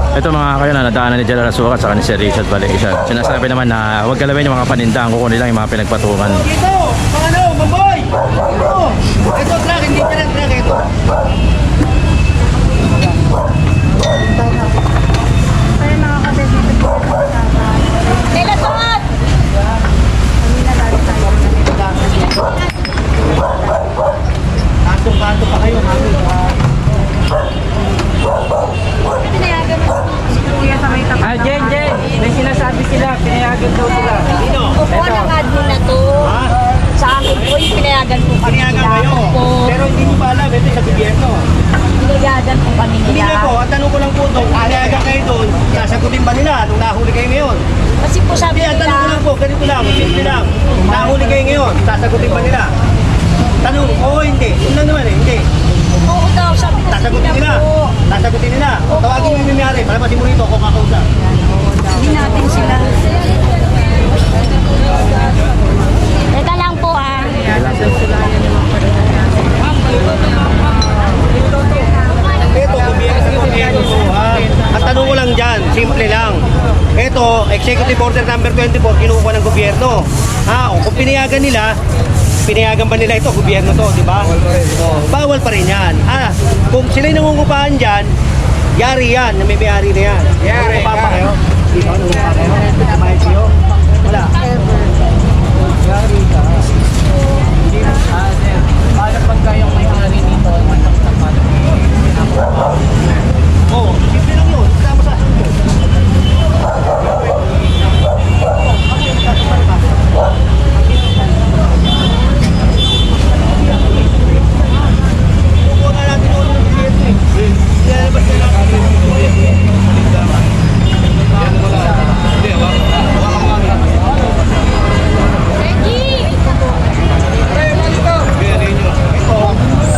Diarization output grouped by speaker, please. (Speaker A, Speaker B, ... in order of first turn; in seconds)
Speaker A: 0.1-6.5, 67.7-68.0
Speaker B: 6.4-10.8, 21.5-21.8, 24.9-26.2, 34.4-34.8, 36.2-36.5, 38.4-41.5, 43.1-47.6, 48.5-52.7, 53.6-55.5, 56.9-61.1, 72.5-81.8, 82.4-88.1, 88.8-94.4, 103.7-105.5, 115.6-117.2, 117.8-119.0
Speaker C: 18.2-19.1, 29.1-31.1, 34.3-36.4, 37.0-39.7, 41.9-43.5, 48.0-49.2, 56.0-58.0, 61.8-63.0, 66.3-67.6, 125.8-126.3
Speaker D: 31.2-34.3, 35.0-35.3, 96.0-96.2, 99.1-101.5